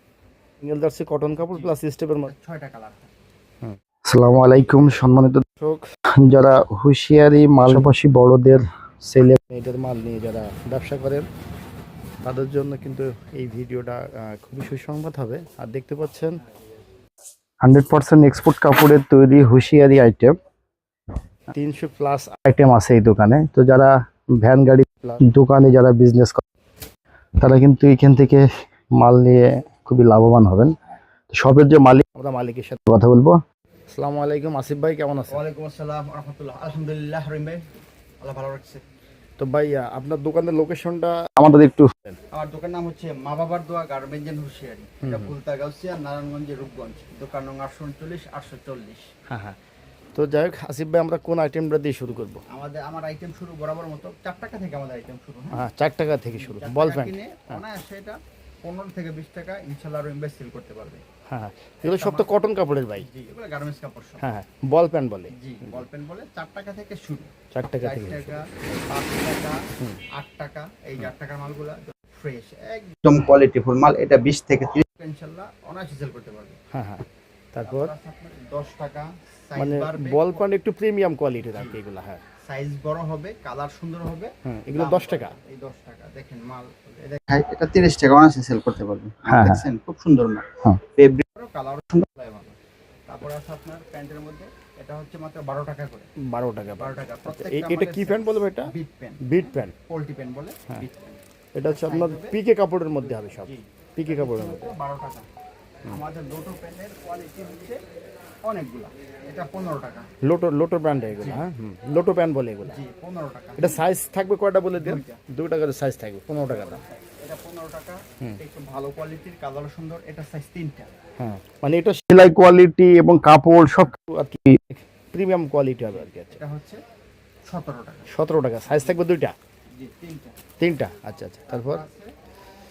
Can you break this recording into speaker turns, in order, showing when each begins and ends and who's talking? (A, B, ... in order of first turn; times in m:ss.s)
0:00.6-0:02.3 A
0:01.4-0:03.1 B
0:03.6-0:11.3 A
0:12.2-0:16.4 A
0:17.6-0:20.4 A
0:21.5-0:23.9 A
0:24.4-0:26.4 A
0:27.4-0:28.5 A
0:29.0-0:30.7 A
0:31.3-0:33.4 A
0:33.9-0:35.4 A
0:35.3-0:37.7 B
0:38.2-0:38.8 B
0:39.4-0:42.2 A
0:42.3-0:49.1 B
0:45.0-0:45.4 A
0:49.3-0:49.6 A
0:50.2-0:52.4 A
0:52.5-0:55.6 B
0:55.5-0:57.6 A
0:56.4-1:01.0 B
1:01.3-1:03.1 A
1:01.8-1:02.3 B
1:03.0-1:04.2 B
1:04.2-1:05.8 A
1:05.3-1:09.6 B
1:07.6-1:08.4 A
1:10.2-1:16.6 B
1:16.7-1:17.9 A
1:17.6-1:20.4 B
1:19.6-1:22.2 A
1:21.5-1:21.8 B
1:22.4-1:32.6 B
1:24.4-1:25.4 A
1:29.3-1:29.7 A
1:33.1-1:36.1 B
1:36.2-1:38.7 A
1:36.8-1:42.4 B
1:39.2-1:39.7 A
1:41.6-1:44.7 A
1:43.0-1:45.3 B
1:45.9-1:47.8 B
1:48.4-1:50.1 B
1:50.2-1:52.8 A
1:51.1-1:51.4 B
1:52.6-1:53.9 B
1:53.6-1:56.8 A
1:54.7-1:55.2 B
1:56.5-2:00.9 B
2:01.2-2:06.4 A
2:05.8-2:06.8 B
2:07.5-2:08.1 B
2:08.1-2:09.3 A
2:08.7-2:09.0 B
2:09.7-2:10.4 B
2:10.6-2:11.8 A
2:11.5-2:12.1 B